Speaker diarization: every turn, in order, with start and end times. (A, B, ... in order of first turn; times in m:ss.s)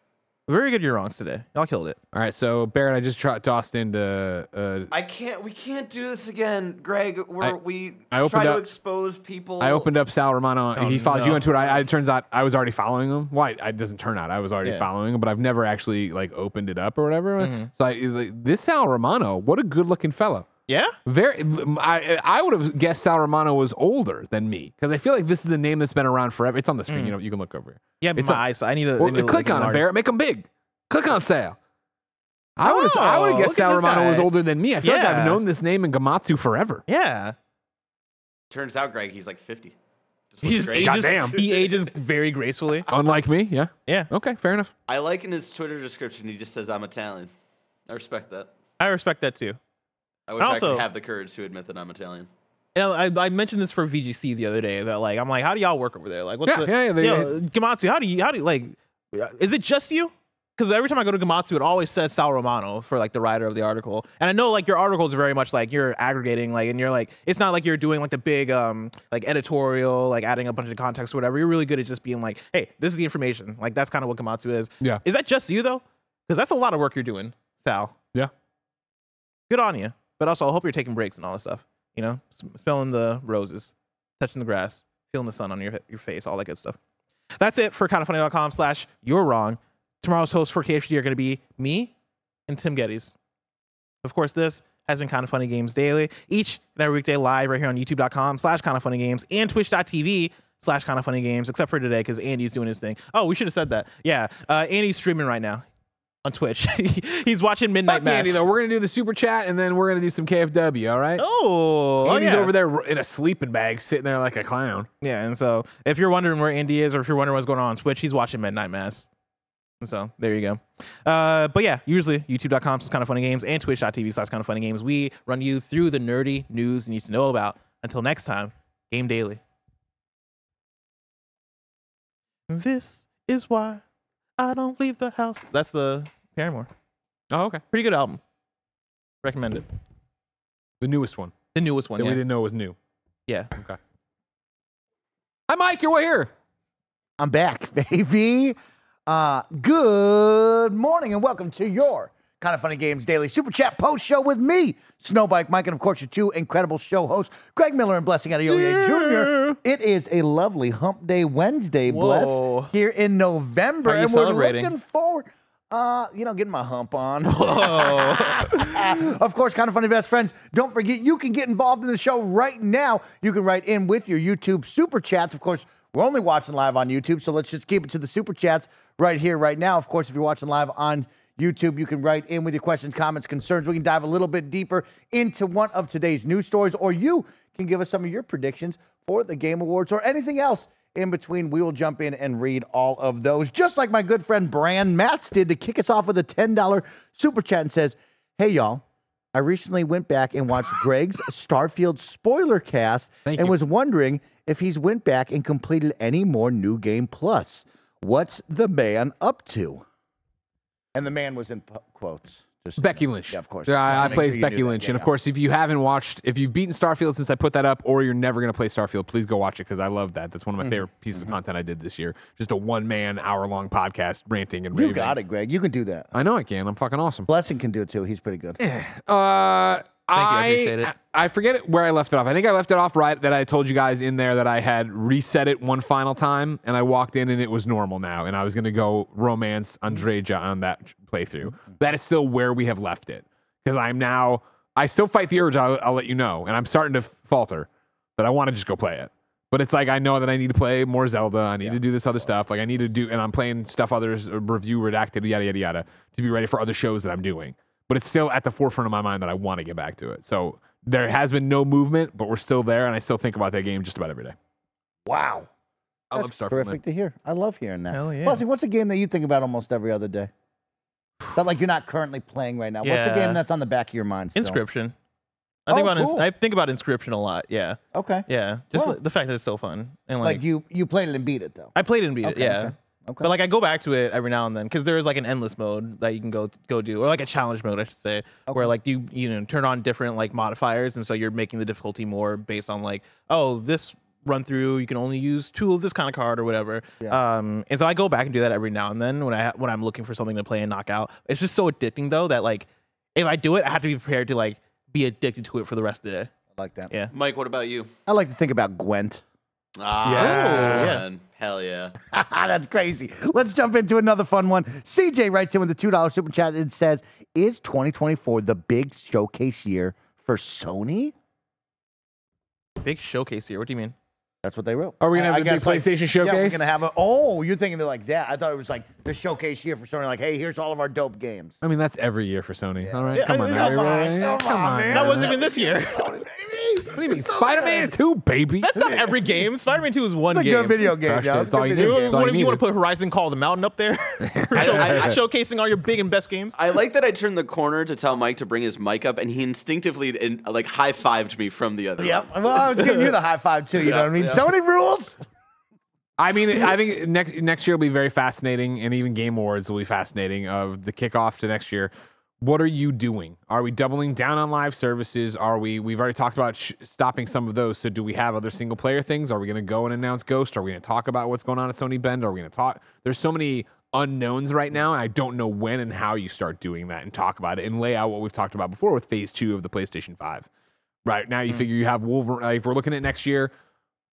0:00.5-0:02.0 A
0:02.1-0:04.9 B
0:04.9-0:09.9 C
0:08.1-0:08.6 B
0:09.6-0:20.5 B
0:10.7-0:11.6 A
0:17.4-0:17.7 A
0:20.7-0:21.0 A
0:21.0-0:28.4 B
0:26.9-0:27.1 A
0:28.0-0:29.9 A
0:29.0-0:31.6 B
0:32.6-0:36.8 B
0:32.6-0:34.3 A
0:34.8-0:35.4 A
0:36.9-0:37.3 A
0:38.5-0:39.8 C
0:40.3-0:41.6 C
0:40.4-0:42.9 A
0:40.7-0:41.4 B
0:42.9-0:44.7 B
0:44.9-0:47.3 C
0:47.9-0:48.5 C
0:48.8-0:49.6 A
0:50.3-0:52.3 C
0:50.4-0:50.8 A
0:52.7-1:18.0 A
0:56.4-0:57.3 B
1:19.5-1:26.8 A
1:27.4-1:31.9 A
1:32.5-1:33.1 A
1:34.0-1:45.6 A
1:46.2-1:48.4 A
1:47.9-1:51.2 B
1:51.2-1:52.5 A
1:52.0-1:54.9 B
1:55.0-1:59.1 A
1:59.8-2:09.4 A
2:12.5-2:13.8 A
2:14.4-2:16.7 A
2:17.3-2:17.6 B
2:17.7-2:18.2 A
2:19.2-2:19.6 A
2:20.8-2:21.4 B
2:21.5-2:22.2 A
2:22.0-2:22.8 B
2:23.3-2:23.5 A
2:25.5-2:26.3 B
2:27.2-2:28.6 D
2:29.1-3:18.8 D
2:38.9-2:39.5 B
2:41.9-2:42.7 A
2:43.8-2:44.7 A
2:47.3-2:48.8 A
3:19.3-3:29.8 D
3:23.2-3:23.6 B
3:30.9-3:35.1 D
3:32.8-3:45.1 B
3:44.7-3:46.1 D
3:46.1-3:47.3 B
3:47.3-3:48.6 D
3:48.6-4:24.4 B
3:50.1-3:50.9 A
4:25.0-4:25.5 D
4:26.1-4:26.8 B
4:26.1-4:30.3 D
4:27.9-4:28.4 A
4:31.3-4:34.6 D
4:32.8-4:33.4 A
4:34.4-4:34.9 A
4:35.7-4:40.4 A
4:35.7-4:36.3 D
4:37.9-4:39.0 D
4:40.2-4:43.3 D
4:41.7-5:06.3 A
4:48.5-4:48.7 D
5:06.6-5:06.9 D
5:07.1-5:07.9 C
5:08.0-5:09.2 D
5:09.8-5:12.0 C
5:10.0-5:10.9 B
5:10.1-5:11.0 A
5:12.1-5:21.1 D
5:22.8-5:23.9 A
5:24.4-5:31.6 D
5:25.0-5:26.6 B
5:31.6-5:35.3 B
5:32.8-5:37.9 D
5:33.1-5:34.3 A
5:34.9-5:36.1 A
5:36.9-5:39.0 B
5:38.6-5:40.8 A
5:40.3-5:42.2 D
5:41.0-5:42.6 B
5:41.7-5:46.5 A
5:44.3-5:45.2 B
5:44.6-5:45.2 C
5:46.5-5:52.6 C
5:52.0-5:55.2 D
5:53.8-5:54.4 C
5:56.2-6:20.5 B
6:21.0-6:23.5 B